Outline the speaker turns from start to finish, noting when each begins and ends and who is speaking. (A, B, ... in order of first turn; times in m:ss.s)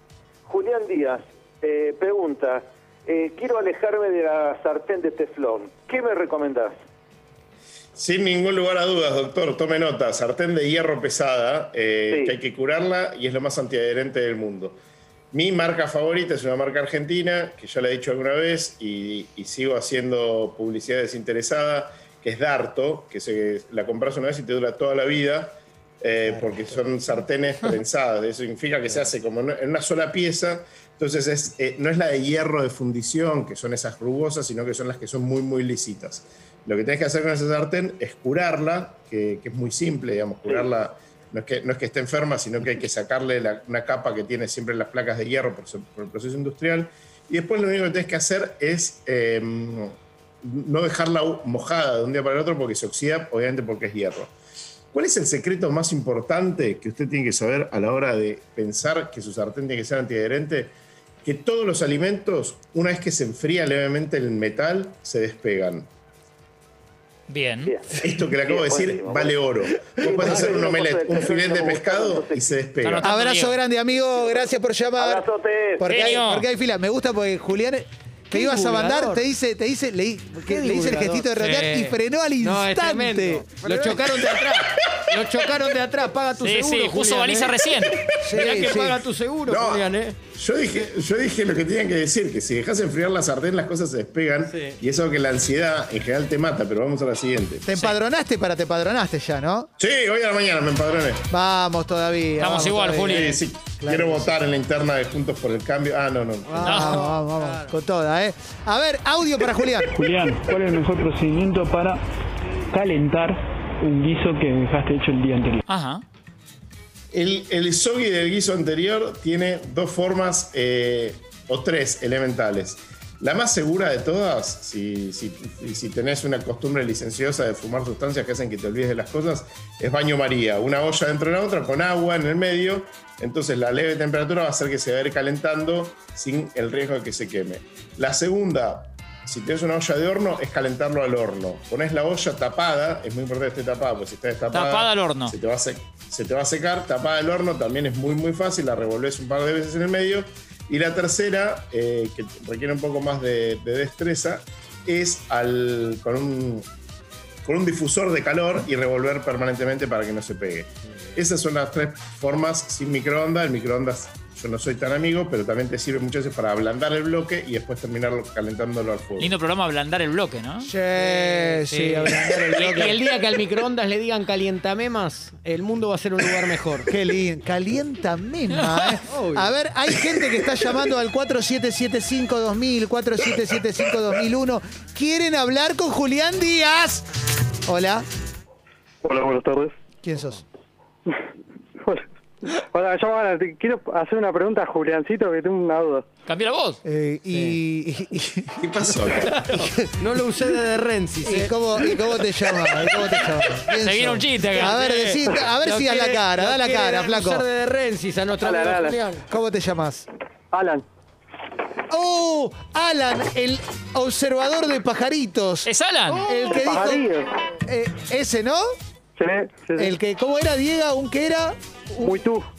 0:00.4-0:06.8 A
0:08.0-0:14.8 B
0:12.1-0:12.4 A
0:15.3-0:54.3 B
0:26.3-0:26.8 C
0:54.9-1:05.9 B
1:07.3-1:07.7 D
1:07.6-1:12.6 A
1:08.0-1:13.1 B
1:12.8-1:13.6 D
1:13.0-1:24.2 C
1:15.0-1:16.2 A
1:15.8-1:16.5 D
1:18.3-1:19.2 E
1:20.4-1:27.6 E
1:26.4-1:28.0 D
1:28.2-1:29.0 C
1:28.3-1:30.2 E
1:29.5-1:37.6 B
1:37.6-1:39.7 C
1:39.8-1:41.3 B
1:41.3-1:44.3 C
1:42.4-1:43.4 D
1:43.0-1:46.7 B
1:46.5-1:47.7 E
1:46.6-1:49.9 C
1:46.6-1:47.0 D
1:49.9-1:52.0 F
1:52.7-1:55.6 F
1:55.7-1:56.0 D
1:57.1-2:36.6 B
2:24.5-2:25.3 D
2:37.4-2:49.3 B
2:49.2-2:50.7 D
2:50.6-2:53.0 C
2:51.0-2:56.9 E
2:56.9-3:07.0 C
2:59.0-2:59.5 E
3:07.7-3:08.0 C
3:09.0-3:09.7 G
3:10.0-3:10.4 C
3:11.8-3:16.1 G
3:16.2-3:16.8 D
3:16.8-3:18.6 C
3:17.3-3:17.6 E
3:18.6-3:19.5 B
3:19.3-3:23.2 E
3:19.5-3:20.0 C
3:21.2-3:27.4 C
3:23.8-3:25.0 D
3:24.5-3:29.2 E
3:28.4-3:29.0 G
3:29.3-3:30.1 C
3:30.5-3:30.8 G
3:31.9-3:35.7 C
3:35.6-3:36.2 D
3:36.1-3:36.8 E
3:36.2-3:37.0 C
3:36.6-3:37.3 G
3:37.6-3:38.7 C
3:39.2-3:39.9 G
3:39.8-3:42.2 C
3:42.0-3:42.4 G